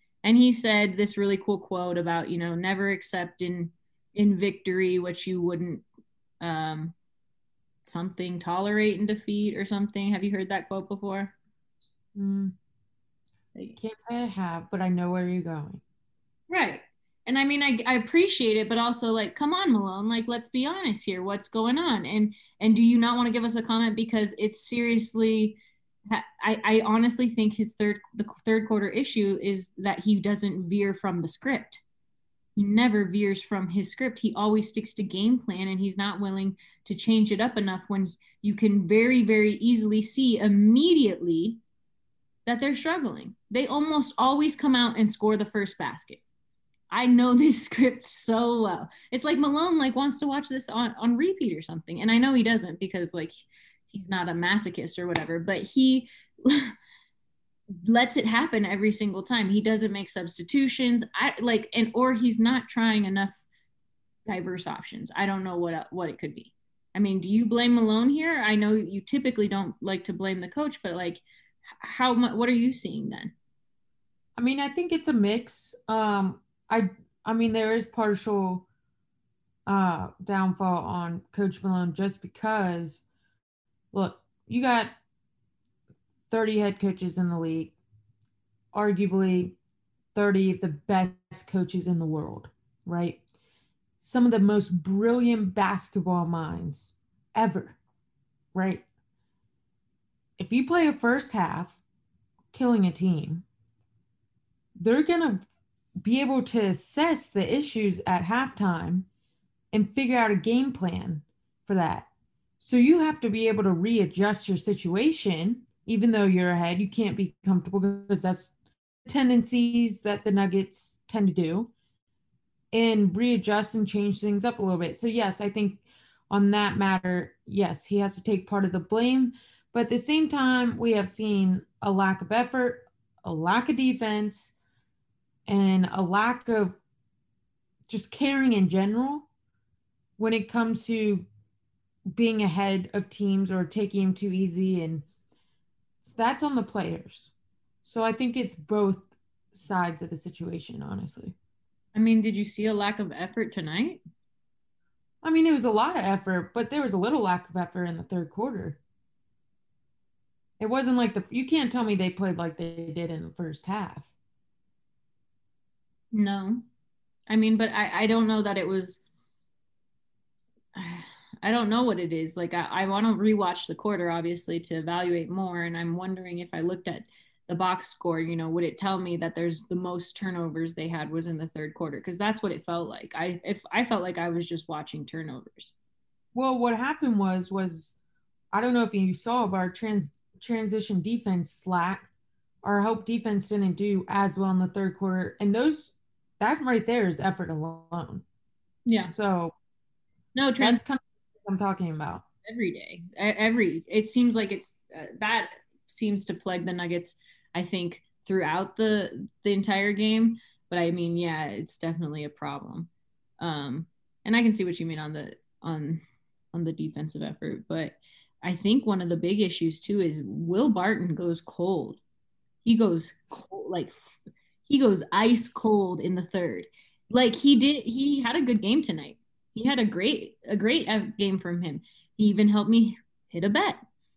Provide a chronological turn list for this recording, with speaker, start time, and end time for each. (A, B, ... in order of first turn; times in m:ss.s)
0:00.2-0:05.8 A
0:06.4-0:06.9 A
0:07.8-0:11.3 A
0:12.1-0:12.5 B
0:13.8-0:15.8 B
0:16.5-0:31.8 A
0:32.6-0:41.6 A
0:42.4-0:46.2 A
0:46.9-0:56.7 A
0:57.8-1:03.4 A
1:04.2-1:13.3 A
1:14.4-1:18.6 B
1:19.6-1:23.0 B
1:23.9-1:24.9 B
1:26.3-1:27.7 B
1:28.7-1:29.6 B
1:30.1-1:33.2 B
1:34.0-1:37.8 B
1:38.5-1:38.8 B
1:40.4-1:41.8 B
1:42.5-1:43.4 B
1:44.8-1:45.4 B
1:46.0-1:49.1 B
1:49.7-1:52.1 B
1:52.6-2:01.7 B
2:02.7-2:14.5 B
2:15.5-2:16.8 B
2:17.9-2:19.3 B
2:20.2-2:21.3 B
2:22.1-2:25.0 B
2:26.0-2:27.3 B
2:27.8-2:31.4 B
2:31.9-2:34.0 A
2:35.2-2:38.8 B
2:40.6-2:44.1 B
2:46.1-2:46.6 A
2:47.3-2:49.0 A
2:50.7-3:05.7 A
3:06.3-3:08.0 B
3:08.5-3:12.1 B
3:12.6-3:18.2 B
3:18.8-3:19.1 A
3:19.0-3:19.5 B
3:20.3-3:20.8 A
3:20.6-3:22.2 B
3:22.4-3:36.0 A
3:36.5-3:42.0 A
3:42.6-3:53.8 A